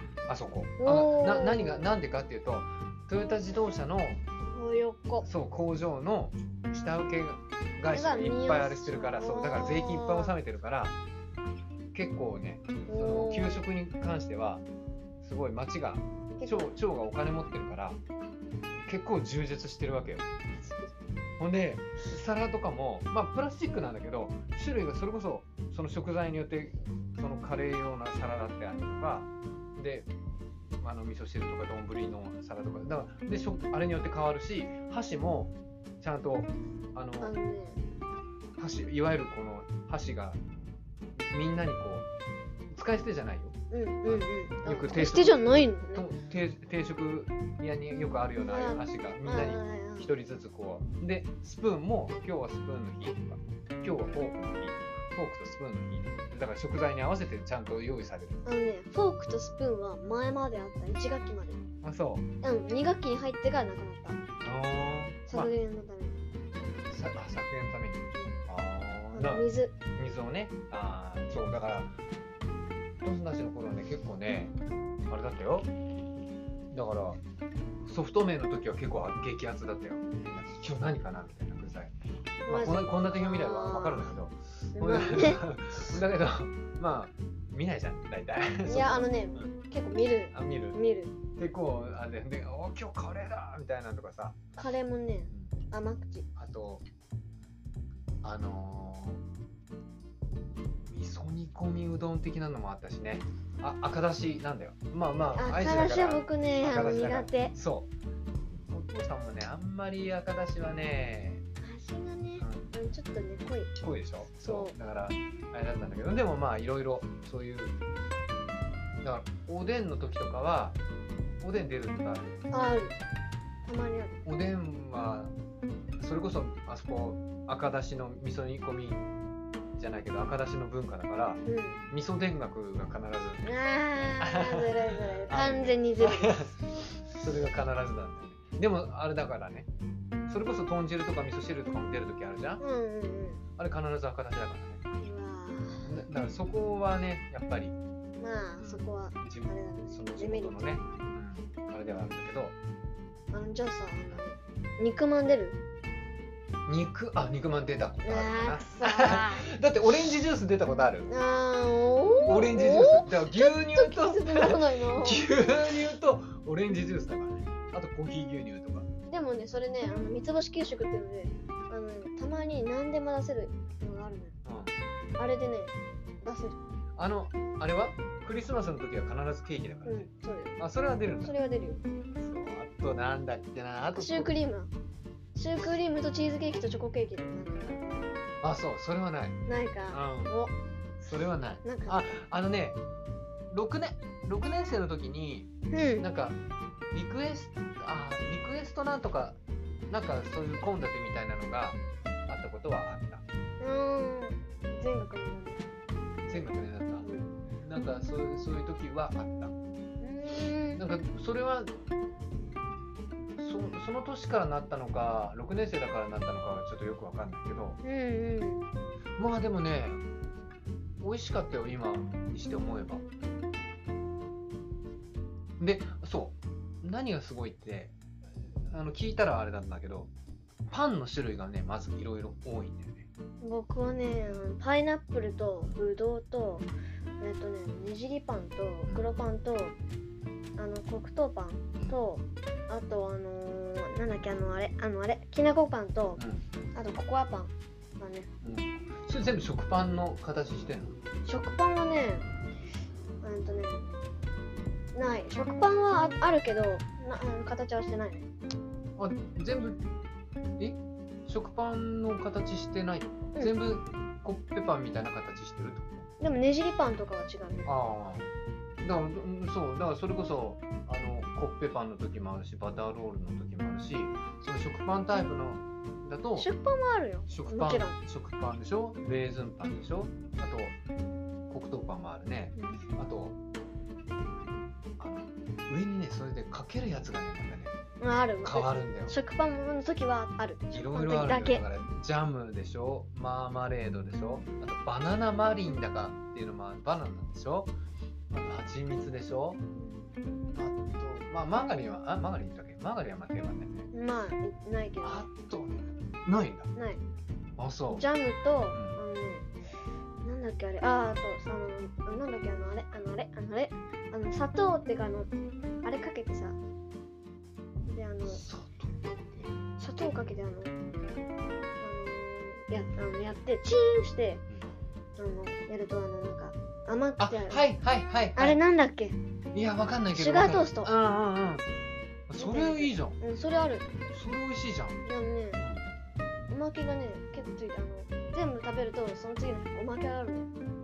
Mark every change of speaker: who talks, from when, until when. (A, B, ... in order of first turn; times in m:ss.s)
0:00.3-0:04.2 A
0:00.8-0:01.9 B
0:04.4-0:05.2 B
0:05.2-0:10.9 A
0:07.9-0:10.3 B
0:11.9-0:14.6 A
0:12.9-0:13.6 B
0:15.2-0:18.0 A
0:16.4-0:16.7 B
0:18.8-0:20.2 A
0:20.6-0:20.9 B
0:21.4-0:30.1 A
0:30.8-0:37.3 A
0:37.2-0:37.8 B
0:38.6-0:40.4 A
0:41.2-0:42.0 A
0:42.7-0:43.5 A
0:43.7-0:46.0 B
0:44.0-0:58.4 A
0:48.4-0:50.1 B
0:58.4-1:01.6 B
1:01.8-1:02.2 A
1:02.4-1:04.2 B
1:04.4-1:05.5 A
1:05.3-1:06.2 B
1:06.9-1:11.9 A
1:09.1-1:09.7 B
1:13.0-1:14.5 A
1:15.1-1:15.7 A
1:16.7-1:17.2 A
1:17.8-1:21.9 A
1:22.4-1:24.1 B
1:22.4-1:29.5 A
1:24.7-1:25.4 B
1:28.6-1:31.1 B
1:30.3-1:30.8 A
1:31.4-1:34.3 A
1:34.6-1:36.2 B
1:36.4-1:36.8 A
1:38.2-1:39.2 A
1:40.9-1:47.9 A
1:45.3-1:47.5 B
1:48.5-1:51.4 A
1:51.6-1:53.7 B
1:52.4-1:52.6 A
1:53.8-1:57.7 A
1:54.4-1:54.7 B
1:59.0-2:00.8 A
2:01.4-2:02.8 A
2:02.5-2:02.9 B
2:03.6-2:04.2 B
2:04.2-2:05.3 A
2:06.0-2:09.0 A
2:09.8-2:13.5 A
2:11.4-2:11.8 B
2:13.4-2:16.5 B
2:14.2-2:16.5 A
2:17.1-2:19.7 A
2:20.3-2:22.6 A
2:22.6-2:23.4 B
2:23.6-2:24.8 A
2:25.0-2:25.9 B
2:25.8-2:27.7 A
2:28.2-2:30.6 B
2:28.6-2:32.5 A
2:33.3-2:35.6 B
2:36.6-2:41.1 A
2:38.0-2:39.5 B
2:41.1-2:45.3 B
2:42.2-2:48.8 A
2:49.0-2:54.4 B
2:54.4-2:54.7 A
2:55.2-2:56.6 B
2:57.0-3:01.3 A
2:59.8-3:00.6 B
3:01.2-3:01.8 B
3:02.2-3:04.3 A
3:03.9-3:04.7 B
3:05.3-3:08.0 B
3:08.4-3:09.4 A
3:09.4-3:10.5 B
3:09.9-3:10.3 A
3:11.0-3:12.8 A
3:11.6-3:12.0 B
3:13.5-3:15.5 A
3:15.7-3:16.0 B
3:16.0-3:16.4 A
3:16.9-3:19.4 A
3:19.9-3:23.2 A
3:23.6-3:25.6 B
3:26.3-3:29.5 A
3:27.0-3:27.3 B
3:30.0-3:30.8 B
3:30.8-3:31.7 A
3:33.4-3:37.8 A
3:37.8-3:38.6 B
3:39.2-3:40.0 A
3:41.0-3:43.0 A
3:45.6-3:47.9 A
3:48.6-3:50.1 A
3:50.7-3:53.1 A
3:53.4-3:56.7 B
3:57.2-3:59.7 B
4:00.6-4:06.2 B
4:06.2-4:06.4 A
4:06.7-4:08.3 B
4:08.4-4:10.9 A
4:11.2-4:12.3 B
4:13.2-4:13.9 B
4:14.9-4:18.2 B
4:19.0-4:19.8 A
4:20.6-4:26.1 A
4:26.2-4:27.7 B
4:27.7-4:28.3 A
4:28.8-4:36.5 A
4:36.3-4:38.0 B
4:37.3-4:40.8 A
4:41.5-4:43.4 A
4:42.6-4:42.8 B
4:45.0-4:47.7 A
4:48.0-4:51.6 B
4:48.4-4:49.2 A
4:50.7-4:57.7 A
4:58.3-4:59.6 A
4:59.7-5:00.1 B
5:00.5-5:03.9 A
5:03.9-5:05.3 B
5:05.0-5:06.7 A
5:06.7-5:07.0 B
5:07.6-5:08.1 A
5:07.9-5:09.5 B
5:08.7-5:09.0 A
5:10.2-5:15.3 B
5:15.8-5:16.6 B
5:17.9-5:18.4 B
5:18.2-5:19.5 A
5:19.8-5:20.7 B
5:21.8-5:24.4 B
5:25.2-5:27.6 B
5:27.2-5:28.6 A
5:28.4-5:29.2 B
5:29.5-5:31.6 A
5:30.1-5:30.9 B
5:32.3-5:33.2 A
5:32.4-5:33.9 B
5:34.1-5:35.0 A
5:35.0-5:35.6 B
5:35.6-5:35.8 A
5:36.5-5:40.5 B